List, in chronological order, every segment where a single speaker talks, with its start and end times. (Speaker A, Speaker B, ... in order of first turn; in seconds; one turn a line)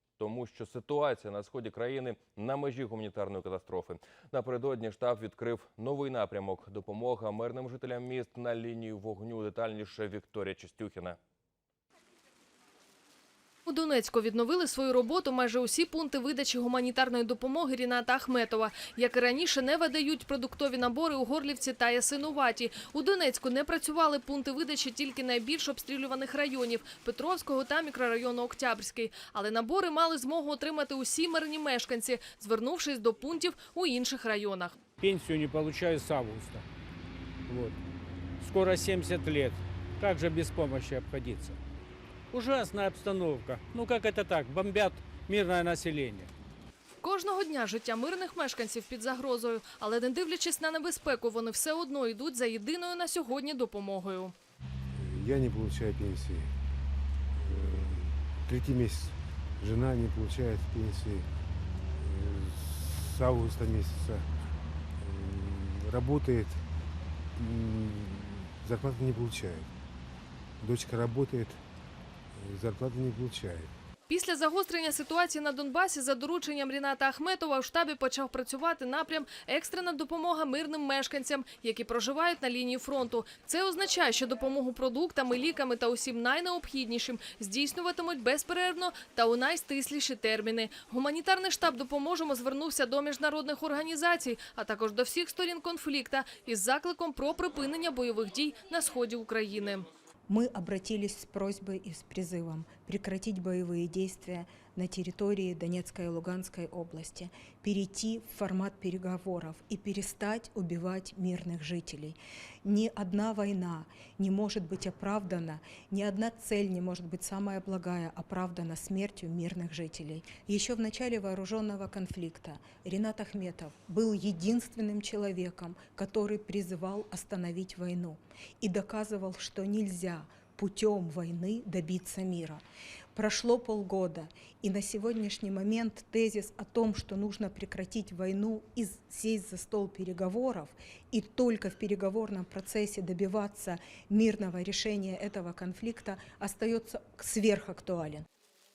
Speaker A: 0.2-11.2
Speaker B: 13.7-34.8
Speaker C: 35.0-36.6
Speaker C: 37.5-37.8
Speaker C: 38.4-41.6
Speaker C: 42.3-46.3
Speaker B: 47.0-54.3
Speaker D: 54.9-56.5
Speaker D: 57.4-61.3
Speaker D: 61.8-64.3
Speaker D: 65.0-66.6
Speaker D: 67.4-69.7
Speaker D: 70.6-71.6
Speaker D: 72.3-73.7
Speaker B: 74.1-99.8
Speaker E: 100.3-132.6
Speaker E: 133.1-148.2